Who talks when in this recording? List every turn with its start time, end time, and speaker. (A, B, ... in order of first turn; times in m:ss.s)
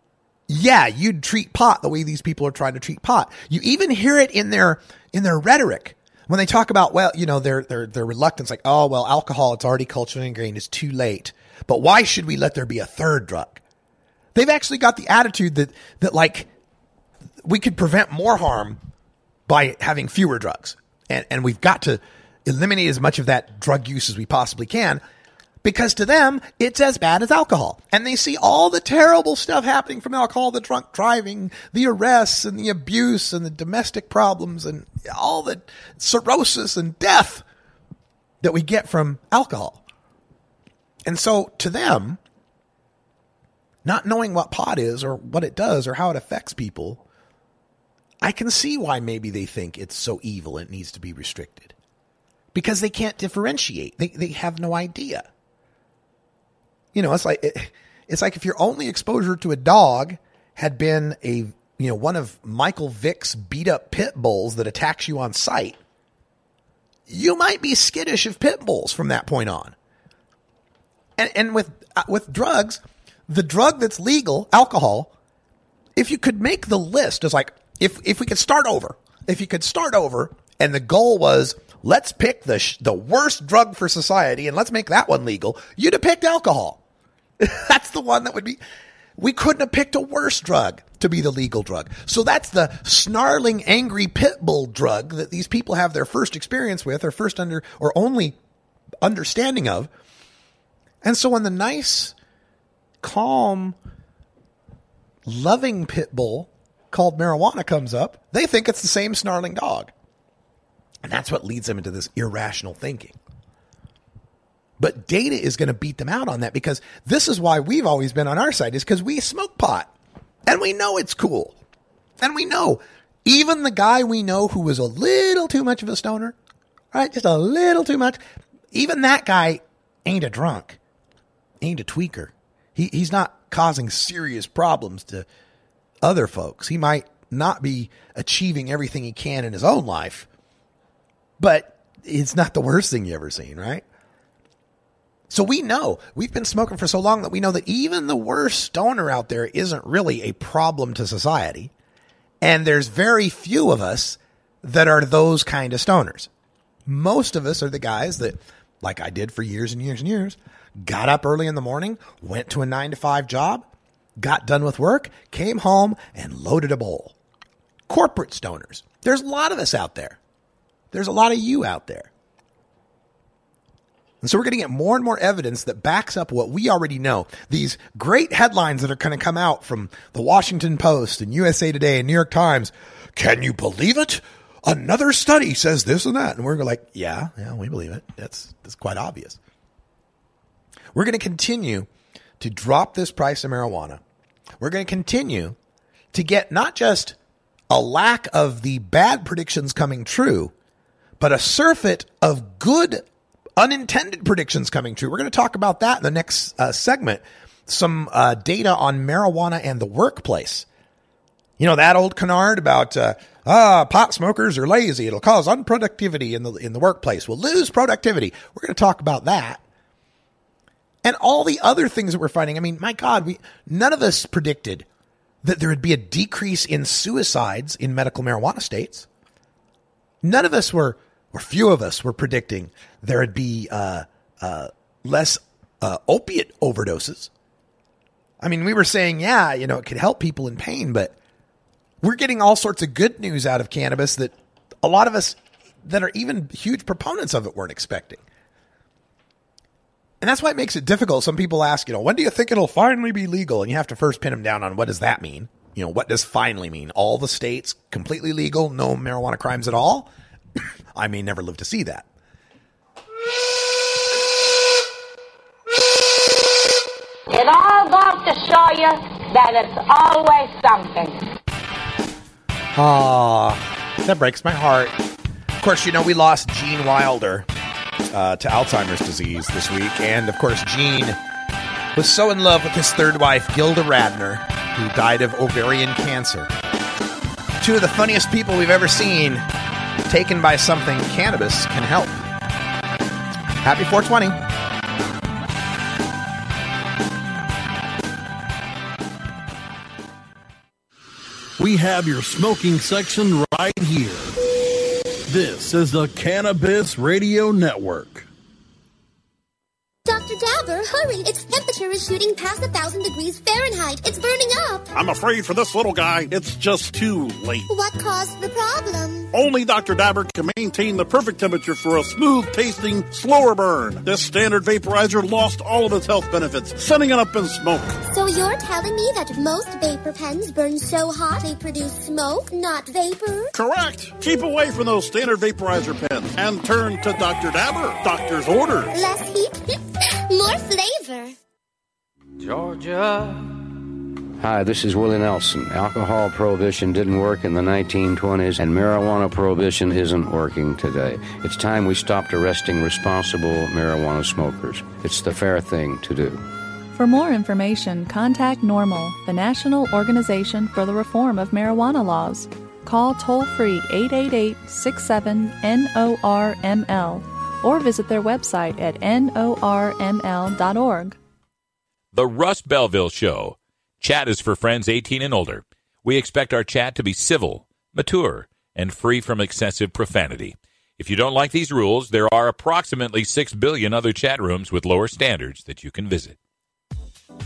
0:00.5-0:13.6 A
0:14.4-0:16.5 A
0:17.4-0:18.8 A
0:19.5-0:25.0 A
0:25.6-0:37.4 A
0:38.4-0:39.8 A
0:41.1-0:42.2 A
0:43.8-0:47.0 A
0:48.2-0:51.8 A
0:52.5-0:55.3 A
0:56.9-1:05.8 A
1:07.1-1:09.8 A
1:11.2-1:15.1 A
1:16.0-1:26.8 A
1:27.4-1:28.6 A
1:29.2-1:38.4 A
1:39.0-1:39.9 A
1:41.0-1:42.2 A
1:43.0-1:43.8 A
1:45.3-1:49.9 A
1:51.0-1:53.2 A
1:54.8-1:59.9 A
2:00.5-2:01.6 A
2:02.2-2:06.4 A
2:06.9-2:08.2 A
2:08.7-2:10.8 A
2:11.6-2:15.3 A
2:16.0-2:20.3 A
2:21.4-2:23.8 A
2:25.3-2:31.7 A
2:32.4-2:36.3 A
2:36.9-2:43.7 A
2:44.2-2:47.2 A
2:47.9-2:50.2 A
2:50.9-2:52.1 A
2:54.2-3:09.4 A
3:11.0-3:11.9 A
3:12.4-3:14.0 A
3:14.6-3:15.6 A
3:16.1-3:17.2 A
3:17.7-3:20.5 A
3:21.2-3:23.0 A
3:23.6-3:30.7 A
3:31.6-3:39.6 A
3:41.0-3:44.9 A
3:45.4-3:49.1 A
3:50.2-3:57.3 A
3:58.4-4:01.2 A
4:02.0-4:08.2 A
4:10.2-4:20.1 A
4:21.0-4:22.1 A
4:27.3-4:31.2 B
4:32.7-4:35.0 A
4:35.6-4:37.5 A
4:38.1-4:41.2 A
4:42.0-4:46.5 A
4:47.6-4:49.4 A
4:50.1-4:52.2 A
4:53.6-4:54.4 A
5:01.6-5:04.3 C
5:05.3-5:08.3 C
5:10.1-5:14.9 D
5:15.0-5:17.7 E
5:17.7-5:19.3 D
5:19.3-5:28.0 E
5:28.1-5:33.5 D
5:33.5-5:38.9 E
5:38.9-5:41.3 D
5:42.4-5:43.1 F
5:44.4-5:56.4 F
5:56.9-6:11.2 G
6:12.1-6:26.4 H